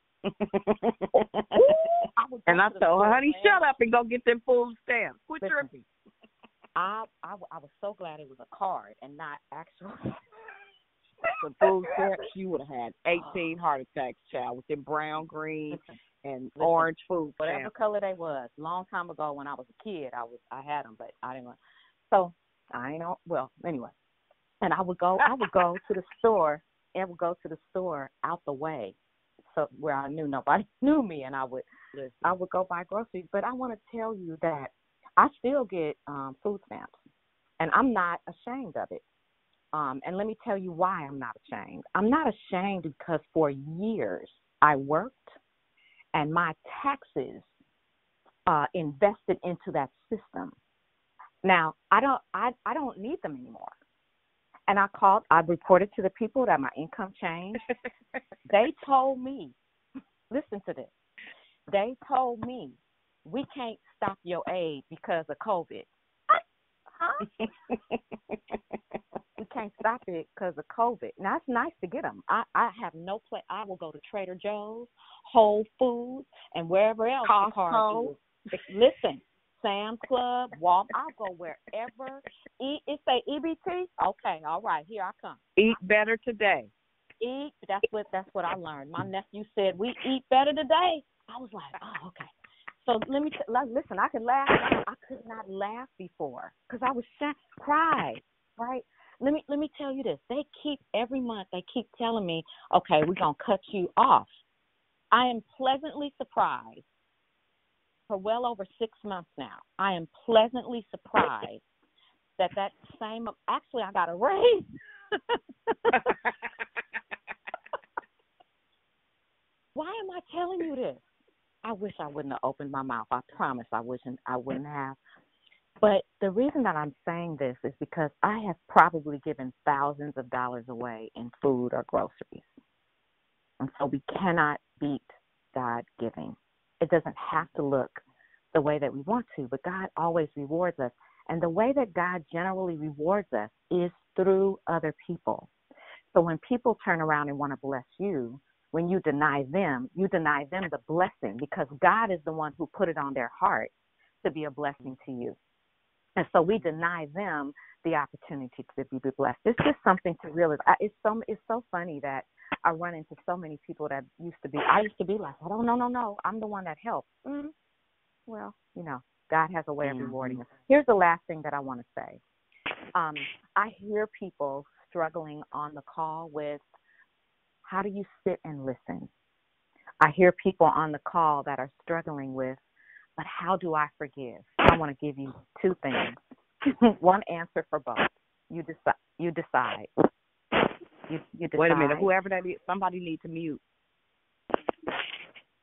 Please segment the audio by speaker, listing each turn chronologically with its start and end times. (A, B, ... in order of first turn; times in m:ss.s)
0:00.3-0:01.7 A
0:01.6-0:03.7 B
0:02.5-0:05.7 A
0:05.4-0:05.9 B
0:06.8-0:10.2 B
0:11.3-0:12.3 B
0:11.5-0:17.7 A
0:13.1-0:13.5 B
0:15.7-0:16.0 B
0:16.6-0:21.6 B
0:22.1-0:24.0 B
0:24.6-0:31.7 B
0:32.0-0:32.3 A
0:32.2-0:37.0 B
0:37.6-0:39.0 B
0:39.7-0:45.4 B
0:46.1-0:47.5 B
0:48.5-0:50.6 B
0:51.4-0:53.8 B
0:54.7-0:57.6 B
0:58.5-0:59.6 B
1:00.3-1:00.9 B
1:01.7-1:06.4 B
1:07.0-1:07.3 B
1:09.4-1:25.8 B
1:17.2-1:18.2 A
1:25.6-1:26.7 A
1:27.2-1:32.3 B
1:32.8-1:44.3 B
1:45.1-1:46.9 B
1:48.1-1:51.6 B
1:52.4-1:54.7 B
1:59.8-2:05.0 B
2:05.8-2:12.6 B
2:13.6-2:25.5 B
2:26.1-2:35.4 B
2:36.2-2:47.5 B
2:48.3-2:52.2 B
2:49.8-2:50.4 A
2:53.0-2:56.7 B
2:57.6-2:59.1 B
3:00.0-3:02.6 B
3:03.2-3:06.2 B
3:06.8-3:09.9 B
3:11.1-3:12.1 B
3:11.6-3:13.6 A